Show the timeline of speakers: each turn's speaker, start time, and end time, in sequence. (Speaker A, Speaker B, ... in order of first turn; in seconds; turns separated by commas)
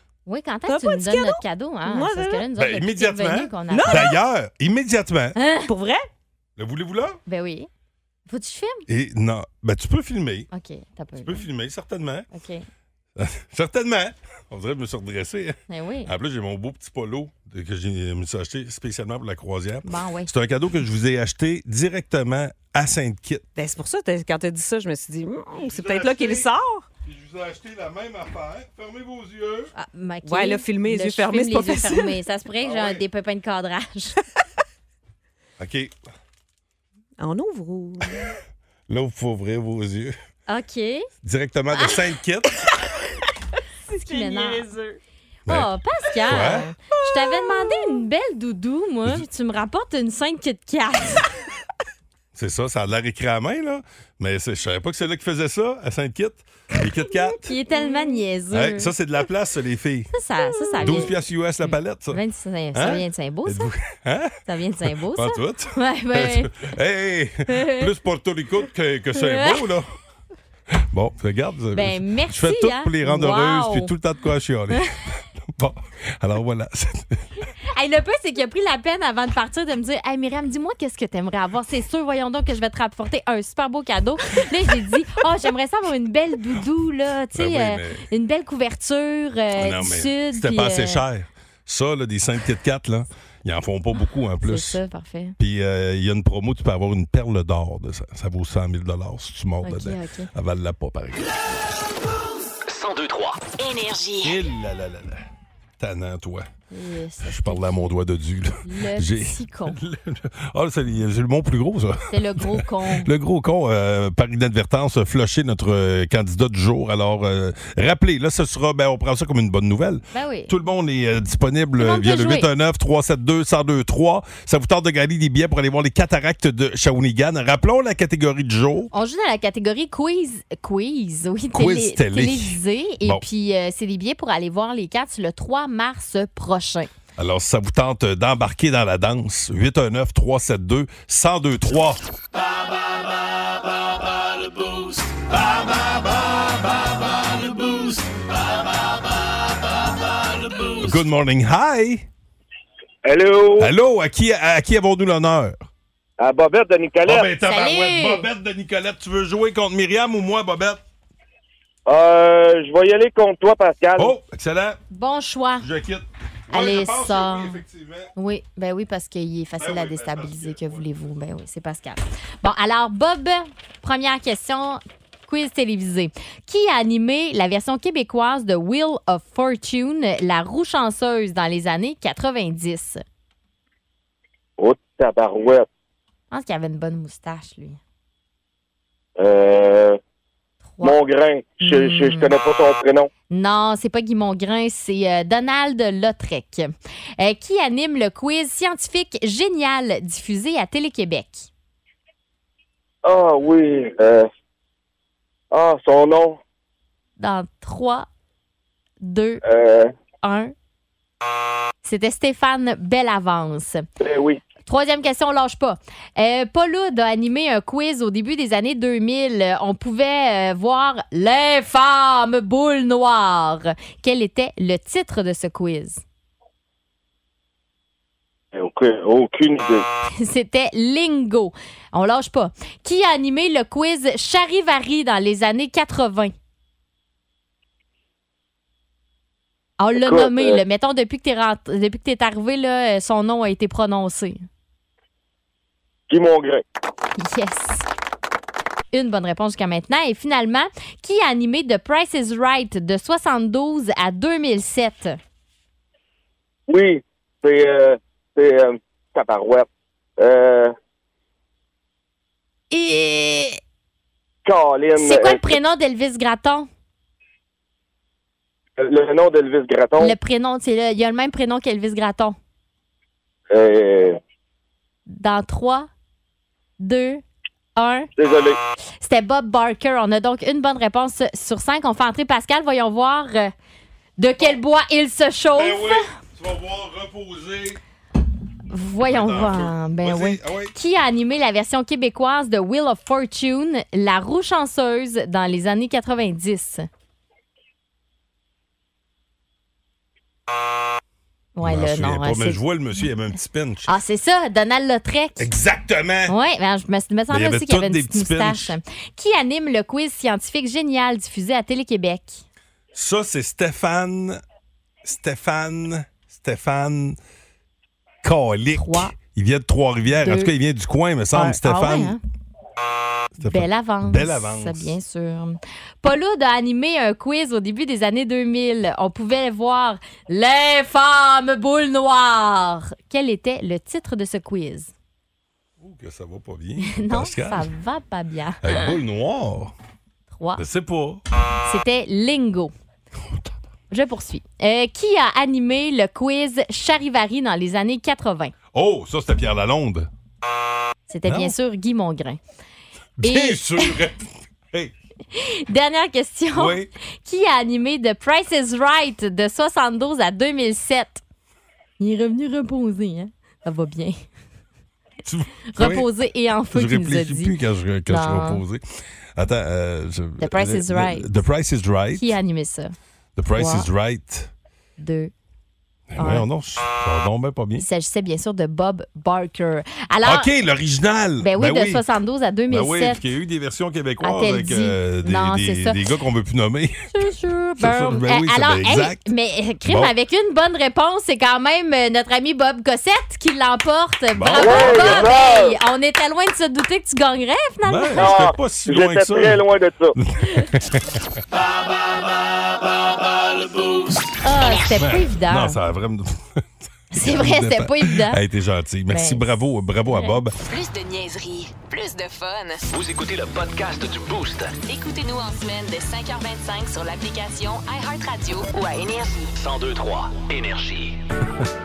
Speaker A: 0.2-4.1, Speaker B: 0.7-2.5, Speaker C: 2.5-5.3, Speaker B: 3.7-4.2, Speaker A: 5.3-5.7, Speaker B: 5.7-6.0, Speaker C: 6.6-7.2, Speaker A: 7.3-7.7, Speaker A: 8.3-8.8, Speaker C: 8.9-10.5, Speaker A: 10.5-11.4, Speaker C: 11.2-12.3, Speaker A: 12.3-12.7, Speaker C: 13.2-23.4, Speaker A: 15.7-16.1, Speaker A: 19.8-20.3, Speaker B: 23.6-26.9, Speaker C: 25.6-26.5, Speaker C: 27.0-29.7, Speaker A: 29.7-34.1, Speaker B: 30.2-32.1, Speaker C: 32.6-33.0, Speaker C: 35.6-35.9, Speaker B: 37.2-38.3, Speaker C: 38.9-40.1, Speaker A: 40.5-41.1, Speaker C: 41.2-42.5, Speaker A: 43.9-44.7, Speaker B: 43.9-45.0, Speaker A: 45.5-51.2, Speaker C: 46.2-46.6, Speaker B: 47.0-48.0, Speaker C: 52.3-57.5, Speaker A: 57.3-58.9, Speaker B: 57.7-58.2, Speaker C: 58.5-60.1, Speaker A: 60.1-61.1, Speaker B: 60.5-61.1, Speaker C: 60.8-62.2, Speaker A: 61.7-63.7, Speaker C: 62.7-64.4, Speaker A: 64.5-66.5, Speaker C: 65.0-69.9, Speaker A: 67.5-67.9, Speaker A: 69.1-69.6, Speaker C: 70.9-77.2, Speaker A: 71.7-73.9, Speaker A: 77.7-91.0, Speaker C: 87.3-88.0, Speaker C: 89.5-94.8, Speaker A: 94.4-95.3, Speaker C: 95.4-101.3, Speaker A: 99.6-100.3, Speaker D: 102.7-103.5, Speaker E: 103.5-104.4, Speaker C: 104.2-105.2, Speaker C: 105.8-106.5, Speaker A: 106.7-107.8, Speaker C: 107.2-128.9, Speaker A: 108.6-109.8, Speaker A: 112.1-113.1, Speaker A: 120.1-120.5, Speaker A: 121.8-122.5, Speaker A: 128.9-136.9, Speaker C: 131.5-133.2, Speaker C: 137.2-142.0, Speaker C: 150.7-152.1, Speaker F: 153.0-153.7, Speaker C: 153.6-155.6, Speaker F: 156.2-157.3, Speaker C: 157.1-160.8, Speaker A: 157.4-158.3, Speaker F: 161.9-164.2, Speaker C: 164.0-164.8, Speaker A: 164.9-165.7, Speaker C: 165.6-168.1, Speaker A: 166.5-167.6, Speaker A: 168.2-183.0, Speaker C: 169.6-170.8, Speaker F: 184.6-185.7, Speaker A: 186.3-187.8, Speaker F: 189.2-190.0, Speaker F: 190.8-193.1, Speaker A: 191.6-192.3, Speaker A: 193.3-201.5, Speaker F: 203.0-204.3, Speaker F: 205.5-206.4, Speaker A: 207.2-208.1, Speaker A: 209.0-209.4, Speaker F: 209.4-209.9, Speaker A: 210.2-210.5, Speaker A: 211.8-213.8, Speaker F: 214.0-214.4, Speaker A: 214.7-226.0, Speaker F: 228.5-229.8, Speaker A: 230.2-236.3, Speaker A: 239.8-244.4, Speaker F: 239.9-240.6, Speaker F: 246.1-246.6, Speaker A: 247.2-247.8, Speaker A: 248.9-255.2, Speaker F: 256.7-260.7, Speaker A: 262.7-263.6, Speaker F: 264.4-265.6, Speaker A: 265.0-266.7, Speaker F: 268.8-270.1, Speaker A: 270.0-272.4, Speaker F: 273.5-274.2, Speaker A: 275.1-275.9, Speaker A: 276.8-277.2, Speaker A: 277.8-278.1, Speaker F: 278.1-278.6, Speaker A: 279.0-283.5, Speaker A: 284.2-286.0, Speaker C: 285.5-287.8, Speaker A: 288.7-296.9, Speaker C: 289.0-290.7, Speaker A: 301.6-302.6, Speaker C: 301.6-303.9, Speaker A: 303.9-305.5, Speaker C: 305.4-306.3, Speaker A: 306.3-312.4, Speaker C: 307.3-308.8, Speaker C: 312.9-314.4, Speaker C: 315.0-317.2, Speaker C: 318.2-322.1, Speaker A: 318.8-319.1, Speaker A: 320.2-320.5, Speaker A: 321.3-322.2, Speaker C: 323.3-324.9, Speaker A: 323.4-334.9, Speaker C: 335.8-337.7, Speaker A: 336.8-338.9, Speaker C: 338.6-339.7, Speaker A: 340.3-340.6, Speaker C: 340.6-341.2, Speaker A: 341.6-342.7, Speaker A: 343.9-348.5, Speaker C: 348.7-350.1, Speaker A: 351.1-352.4, Speaker C: 351.2-351.5, Speaker C: 353.2-354.9, Speaker A: 353.2-354.0, Speaker A: 355.3-361.2, Speaker C: 356.5-356.9, Speaker A: 362.0-364.2, Speaker C: 365.2-366.1, Speaker A: 365.7-367.5, Speaker C: 366.7-368.8, Speaker A: 368.1-368.6, Speaker C: 369.4-372.3, Speaker A: 370.4-371.3, Speaker A: 372.1-372.9, Speaker C: 373.4-374.5, Speaker A: 373.6-373.9, Speaker A: 375.0-375.3, Speaker C: 376.1-377.8, Speaker A: 376.2-376.4, Speaker A: 377.8-380.5, Speaker C: 380.2-382.0, Speaker A: 381.4-383.2, Speaker C: 382.7-387.0, Speaker A: 384.2-386.0, Speaker A: 387.1-398.3, Speaker C: 387.8-389.2, Speaker C: 389.9-390.1, Speaker C: 394.4-395.3, Speaker F: 394.6-395.8, Speaker C: 397.8-399.6, Speaker F: 398.2-400.1, Speaker C: 400.2-401.3, Speaker A: 404.4-405.8, Speaker C: 404.9-410.6, Speaker A: 407.1-408.4, Speaker A: 409.1-409.5, Speaker A: 410.1-410.4, Speaker E: 410.6-412.9, Speaker D: 412.9-414.8, Speaker E: 414.8-419.5, Speaker D: 419.6-421.2